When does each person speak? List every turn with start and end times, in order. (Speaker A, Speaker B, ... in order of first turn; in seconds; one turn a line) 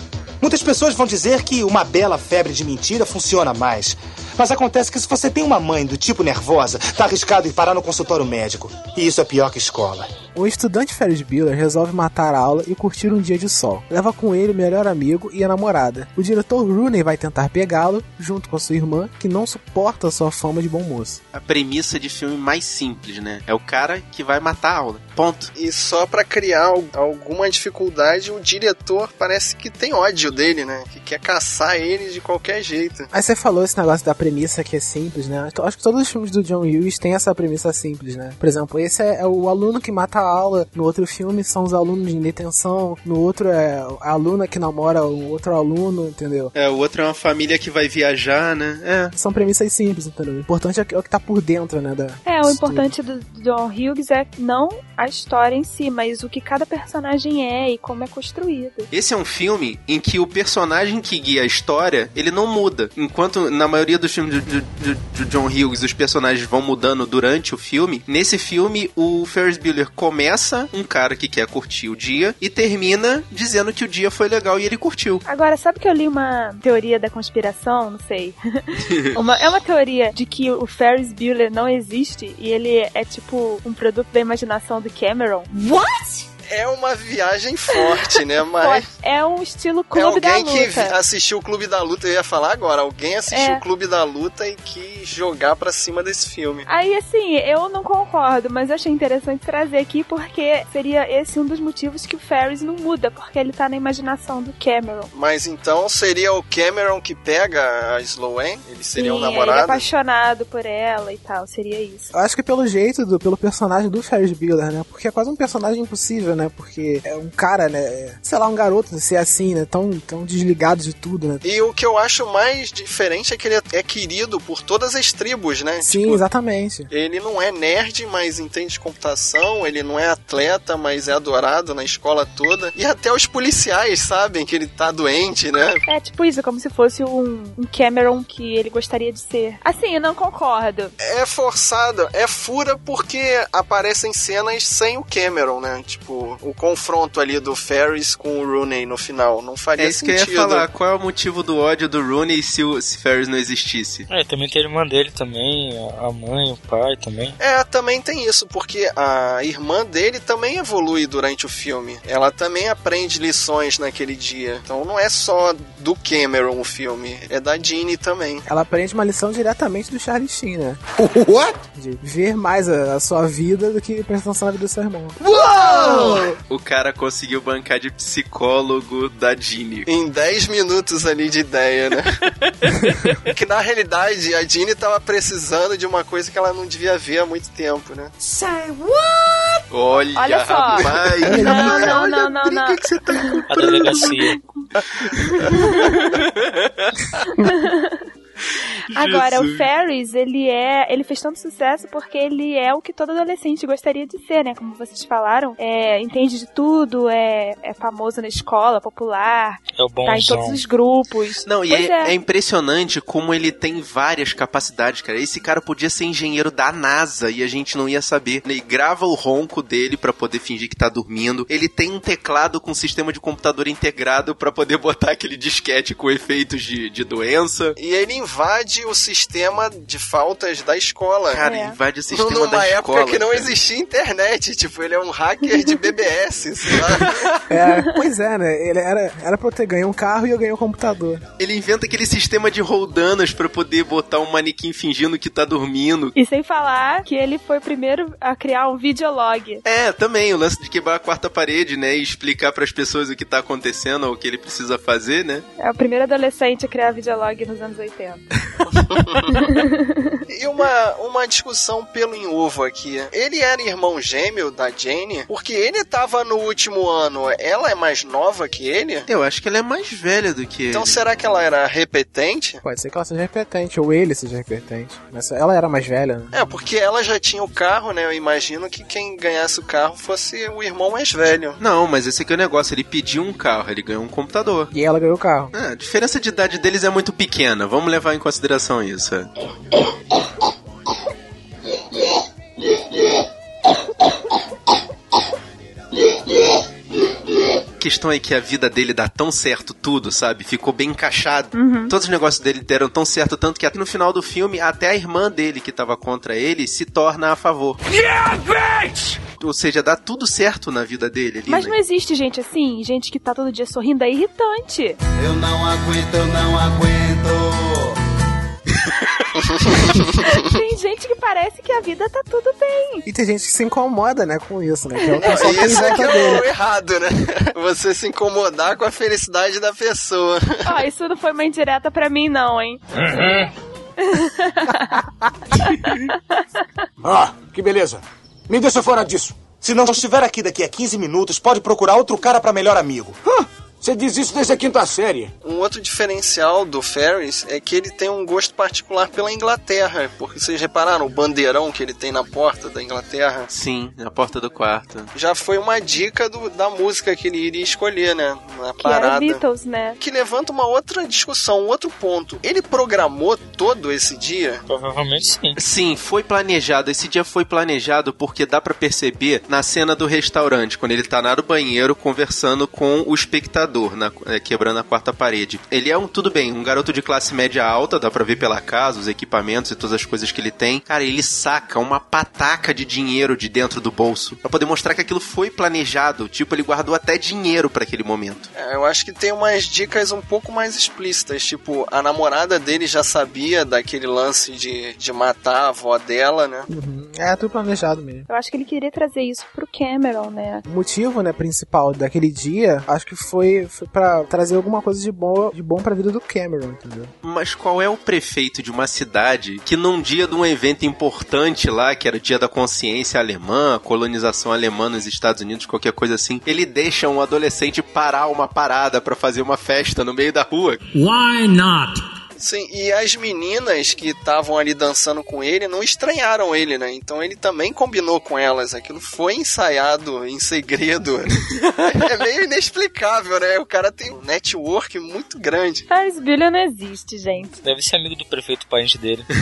Speaker A: 0.4-10.1
Speaker B: 10.3-21.2
Speaker C: 21.3-25.5
Speaker D: 25.5-33.1
Speaker B: 33.1-46.5
Speaker C: 46.5-49.1
Speaker B: 49.1-52.9
Speaker E: 52.2-58.9
Speaker C: 58.9-75.2
Speaker E: 75.2-85.5
Speaker D: 86.5-88.9
Speaker E: 88.6-91.0
Speaker D: 89.9-96.7
Speaker E: 93.3-93.6
Speaker E: 96.7-105.1
Speaker D: 105.1-109.8
Speaker E: 109.0-112.1
Speaker B: 112.1-121.4
Speaker D: 121.4-126.2
Speaker B: 125.8-126.9
Speaker D: 126.9-135.8
Speaker E: 135.8-140.9
Speaker D: 141.0-150.7
Speaker C: 149.8-154.1
Speaker F: 154.1-157.4
Speaker D: 157.4-168.4
Speaker B: 168.4-170.8
Speaker G: 171.0-171.5
Speaker B: 171.8-175.2
Speaker G: 175.2-176.3
Speaker C: 176.5-179.9
Speaker D: 179.9-182.1
Speaker D: 183.2-188.1
Speaker C: 189.7-194.1
Speaker E: 190.2-194.7
Speaker D: 191.2-191.8
Speaker B: 191.2-191.6
Speaker F: 193.5-194.4
Speaker C: 195.0-196.9
Speaker E: 195.5-196.2
Speaker E: 197.3-198.1
Speaker C: 198.9-199.7
Speaker E: 198.9-212.1
Speaker F: 209.7-210.6
Speaker C: 211.4-227.8
Speaker D: 227.8-231.4
Speaker C: 231.3-233.5
Speaker E: 231.4-231.8
Speaker D: 232.1-237.3
Speaker C: 236.9-237.3
Speaker B: 237.5-241.2
Speaker C: 241.4-246.1
Speaker E: 246.2-249.6
Speaker C: 249.6-255.4
Speaker E: 255.6-258.2
Speaker D: 258.9-259.4
Speaker E: 259.3-260.2
Speaker D: 260.3-269.1
Speaker C: 269.1-271.0
Speaker D: 270.7-272.6
Speaker B: 272.6-276.3
Speaker D: 276.3-281.6
Speaker C: 281.6-284.7
Speaker B: 284.7-285.5
Speaker C: 285.5-289.3
Speaker C: 297.8-307.8
Speaker E: 301.5-301.9
Speaker G: 307.9-309.2
Speaker C: 309.4-311.8
Speaker E: 311.5-315.0
Speaker H: 315.2-317.9
Speaker D: 319.4-320.4
Speaker E: 320.3-323.0
Speaker B: 323.1-326.4
Speaker E: 325.1-326.1
Speaker D: 325.2-330.8
Speaker E: 330.6-332.8
Speaker E: 334.0-335.0
Speaker E: 335.6-336.6
Speaker G: 337.0-339.4
Speaker A: 339.6-343.2
Speaker G: 343.2-345.3
Speaker D: 345.4-353.5
Speaker C: 353.5-355.1
Speaker D: 355.1-359.4
Speaker E: 358.8-360.0
Speaker D: 360.0-364.6
Speaker F: 364.7-365.6
Speaker C: 365.6-388.5
Speaker D: 388.6-396.7
Speaker B: 396.7-398.2
Speaker E: 398.3-400.6
Speaker B: 400.7-407.1
Speaker C: 407.2-420.8
Speaker H: 420.9-422.0
Speaker D: 422.4-435.8
Speaker E: 435.9-437.6
Speaker F: 437.6-439.3